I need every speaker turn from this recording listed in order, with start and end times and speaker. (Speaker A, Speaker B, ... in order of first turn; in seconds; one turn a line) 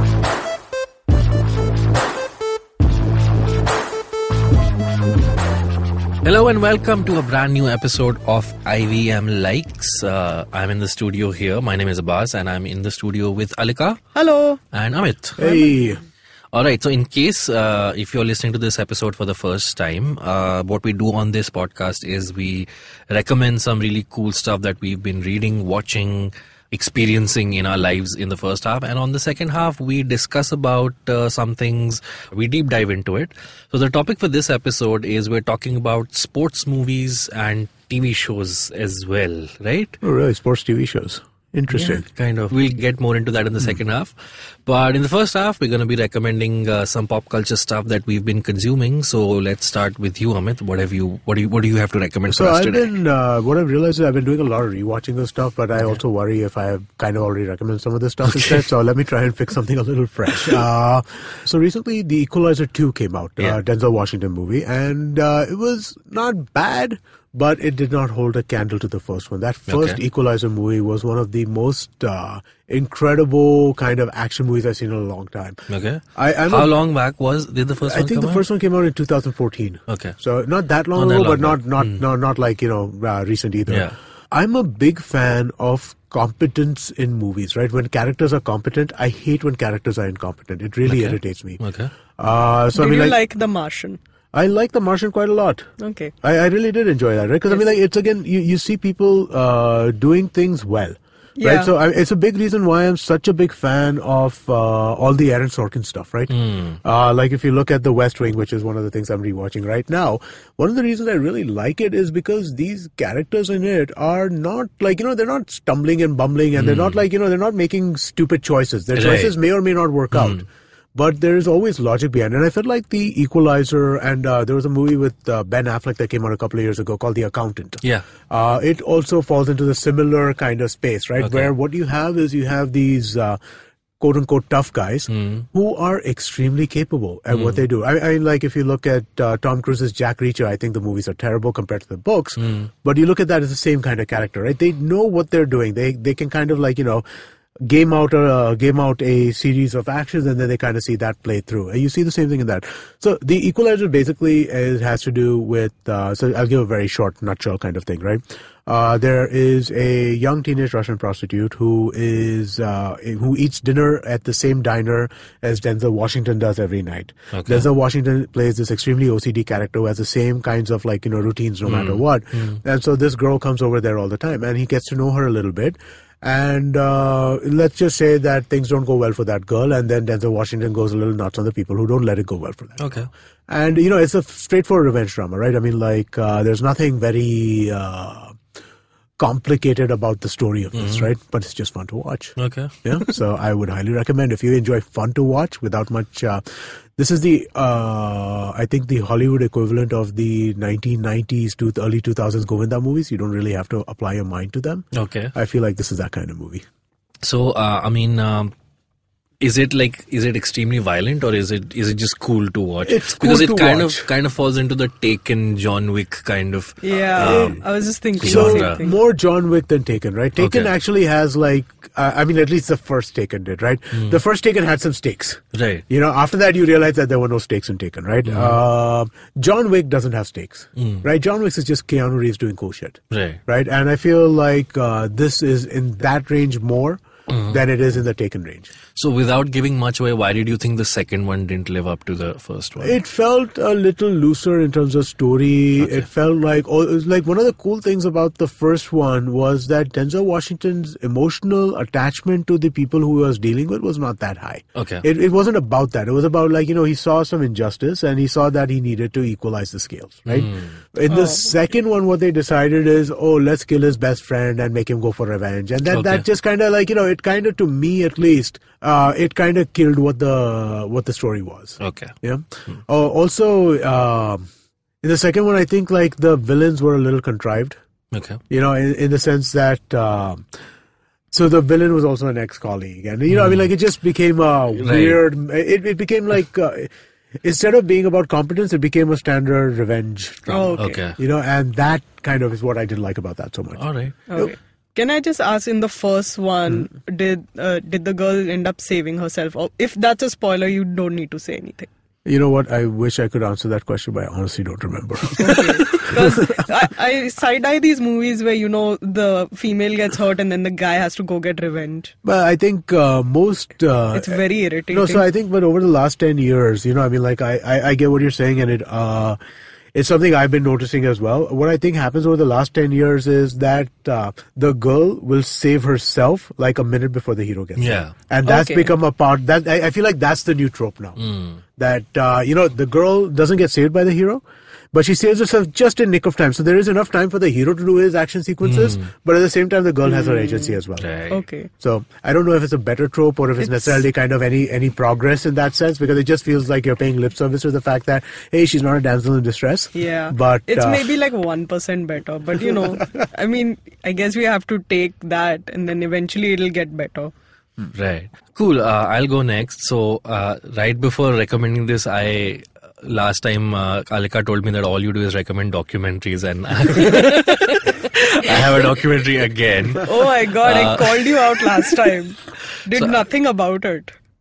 Speaker A: 6.2-14.0
Speaker B: 14.1-14.6
Speaker A: 14.7-15.4
Speaker C: 15.4-16.0
Speaker A: 16.5-40.0
Speaker C: 40.0-42.0
Speaker A: 41.7-44.1
Speaker A: 44.6-52.9
Speaker C: 52.3-75.6
Speaker A: 58.2-58.6
Speaker A: 69.7-70.0
Speaker A: 75.7-78.4
Speaker C: 76.2-76.7
Speaker C: 77.8-91.6
Speaker A: 79.9-80.2
Speaker A: 80.9-82.0
Speaker A: 83.7-84.0
Speaker A: 90.8-91.9
Speaker C: 92.2-93.2
Speaker B: 92.7-94.0
Speaker C: 94.3-95.7
Speaker B: 95.8-96.1
Speaker C: 96.2-133.4
Speaker B: 101.4-101.7
Speaker A: 106.3-106.8
Speaker A: 116.5-117.0
Speaker A: 118.9-119.3
Speaker A: 120.1-120.4
Speaker A: 131.2-131.5
Speaker C: 134.0-147.0
Speaker A: 135.1-135.4
Speaker A: 137.3-137.6
Speaker A: 142.4-142.7
Speaker C: 147.6-182.8
Speaker A: 167.3-167.7
Speaker A: 171.7-172.6
Speaker A: 182.8-183.1
Speaker C: 183.5-188.4
Speaker C: 189.2-196.4
Speaker A: 190.7-191.1
Speaker A: 192.4-193.1
Speaker C: 197.0-206.6
Speaker A: 204.9-205.3
Speaker A: 207.2-208.5
Speaker A: 209.4-217.6
Speaker C: 212.8-214.1
Speaker B: 216.8-219.0
Speaker A: 218.2-218.8
Speaker C: 218.2-238.7
Speaker A: 220.4-220.7
Speaker A: 225.5-225.8
Speaker A: 228.2-228.6
Speaker A: 230.8-231.0
Speaker A: 233.1-233.4
Speaker A: 237.3-237.6
Speaker A: 238.9-242.9
Speaker C: 242.8-274.5
Speaker A: 245.8-246.1
Speaker A: 254.8-255.0
Speaker A: 260.3-260.8
Speaker B: 261.1-261.5
Speaker A: 265.9-266.2
Speaker A: 271.8-272.1
Speaker C: 275.0-277.8
Speaker A: 278.1-278.4
Speaker C: 278.5-280.4
Speaker C: 281.3-293.8
Speaker A: 283.3-283.7
Speaker A: 284.8-285.2
Speaker B: 290.5-291.0
Speaker A: 290.8-291.2
Speaker A: 293.8-294.2
Speaker B: 294.3-301.9
Speaker C: 302.2-306.6
Speaker B: 305.4-312.1
Speaker C: 312.2-314.4
Speaker B: 314.1-315.2
Speaker C: 314.9-319.4
Speaker C: 319.9-331.2
Speaker A: 327.8-328.1
Speaker B: 328.4-328.9
Speaker A: 331.2-331.6
Speaker C: 331.8-341.1
Speaker A: 338.6-339.1
Speaker B: 340.1-340.8
Speaker A: 341.0-341.4
Speaker B: 341.3-341.7
Speaker C: 341.8-351.1
Speaker B: 343.6-343.9
Speaker B: 349.9-357.3
Speaker A: 357.9-372.0
Speaker B: 366.9-368.1
Speaker B: 370.0-374.1
Speaker A: 372.9-373.2